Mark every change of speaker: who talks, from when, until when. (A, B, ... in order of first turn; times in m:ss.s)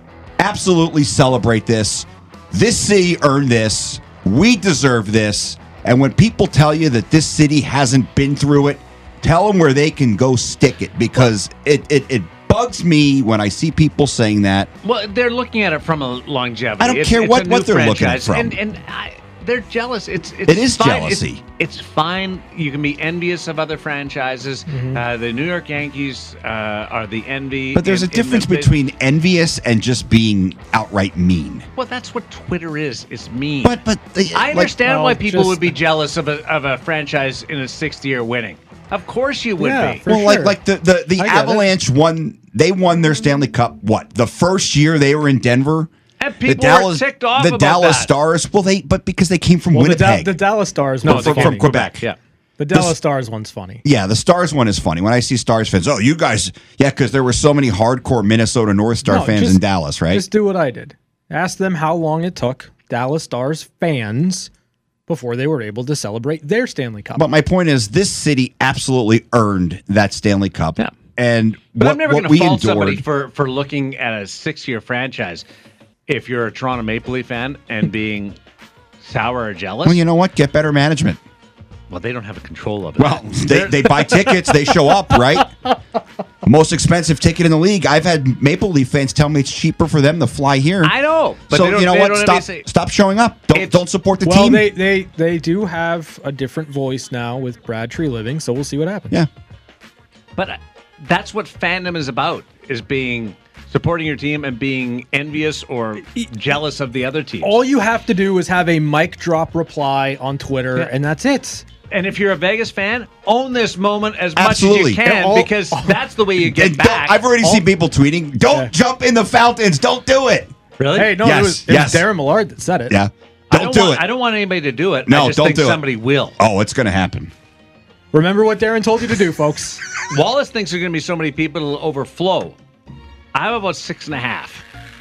0:00.4-0:14.7 A
0:14.8-0:28.7 B
0:16.8-0:18.6 A
0:20.5-0:21.4 A
0:24.7-0:25.0 C
0:27.7-0:31.7 A
0:31.8-0:33.8 B
0:33.6-0:34.8 A
0:34.3-0:40.0 B
0:34.8-0:35.7 C
0:39.6-0:40.6 C
0:40.1-0:45.9 A
0:41.2-0:41.7 C
0:46.2-0:48.1 B
0:46.5-0:50.4 A
0:49.7-0:51.8 C
0:51.0-0:52.0 A
0:51.0-0:52.2 B
0:52.6-0:53.8 C
0:53.8-1:00.3 A
0:59.0-1:04.5 C
1:05.1-1:07.2 C
1:07.2-1:13.0 A
1:11.8-1:15.4 B
1:16.1-1:18.4 B
1:19.0-1:20.0 B
1:19.8-1:21.2 A
1:21.9-1:24.4 B
1:23.0-1:25.5 A
1:26.4-1:31.0 A
1:30.8-1:32.7 B
1:31.5-1:34.7 A
1:33.5-1:33.8 B
1:34.2-1:39.2 C
1:40.4-1:47.6 B
1:47.4-1:51.6 C
1:51.9-1:57.3 B
1:54.4-1:55.0 A
1:55.0-1:56.0 C
1:56.4-2:00.5 A
2:00.8-2:01.2 B
2:01.0-2:03.0 C
2:01.2-2:02.1 A
2:02.9-2:04.0 A
2:03.5-2:06.4 B
2:05.1-2:05.8 A
2:06.4-2:07.3 A
2:08.1-2:09.8 C
2:10.1-2:12.6 B
2:13.3-2:14.6 B